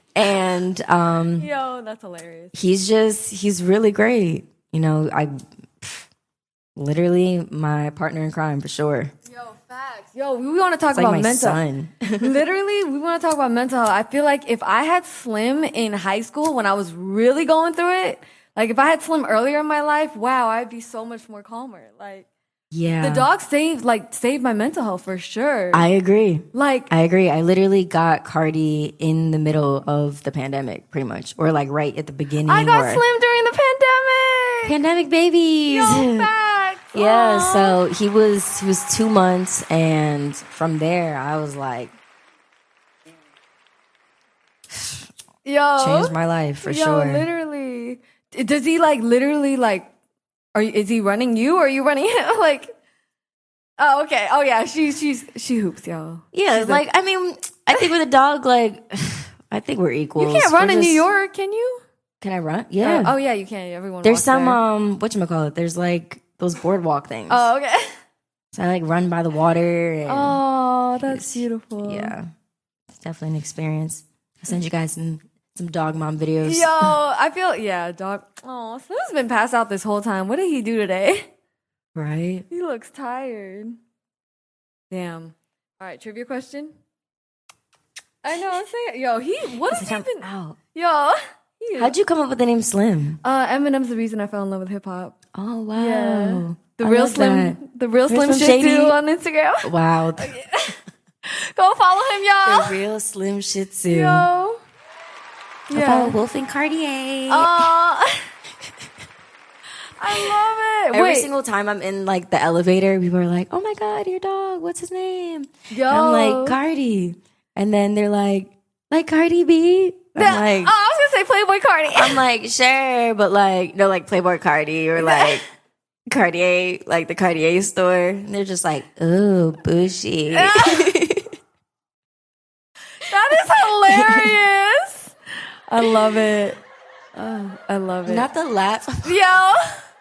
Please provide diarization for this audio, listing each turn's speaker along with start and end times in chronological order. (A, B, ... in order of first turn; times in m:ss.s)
0:00.1-0:01.5 A
0:01.4-0:02.5 B
0:02.5-0:06.1 A
0:06.8-0:09.1 A
0:09.3-0:11.6 B
0:10.9-0:12.4 A
0:12.2-0:22.2 B
0:22.7-0:23.3 A
0:23.0-0:25.8 B
0:25.7-0:33.0 A
0:26.5-0:26.9 B
0:32.5-0:34.7 B
0:34.6-0:36.3 A
0:35.7-0:37.8 B
0:36.9-0:41.9 A
0:44.7-0:45.1 A
0:45.4-0:49.9 B
0:45.8-0:47.2 A
0:50.5-0:52.7 B
0:53.8-0:56.8 B
0:56.3-1:01.0 A
1:00.2-1:01.8 B
1:02.2-1:03.1 A
1:02.8-1:04.6 B
1:04.0-1:07.5 A
1:07.3-1:07.9 B
1:08.5-1:10.4 A
1:10.1-1:12.1 B
1:11.1-1:12.3 A
1:12.9-1:16.9 A
1:16.4-1:21.2 B
1:21.9-1:22.4 A
1:22.5-1:23.8 B
1:24.9-1:26.7 B
1:28.2-1:31.9 B
1:29.7-1:30.6 A
1:31.8-1:33.2 A
1:33.2-1:35.1 B
1:35.3-1:39.0 A
1:35.7-1:40.7 B
1:39.6-1:40.3 A
1:41.3-1:42.8 B
1:42.4-1:44.3 A
1:43.9-1:44.6 B
1:45.7-1:46.2 B
1:45.7-1:47.7 A
1:47.3-1:48.2 B
1:50.0-1:51.3 B
1:50.9-2:00.7 A
1:55.7-1:56.6 B
2:00.2-2:02.2 B
2:01.9-2:05.4 A
2:05.0-2:05.4 B
2:06.1-2:11.3 A
2:10.3-2:10.9 B
2:13.0-2:15.1 B
2:13.9-2:14.3 A
2:15.7-2:16.6 B
2:15.8-2:16.1 A
2:17.2-2:18.3 B
2:18.0-2:19.2 A
2:19.0-2:19.8 B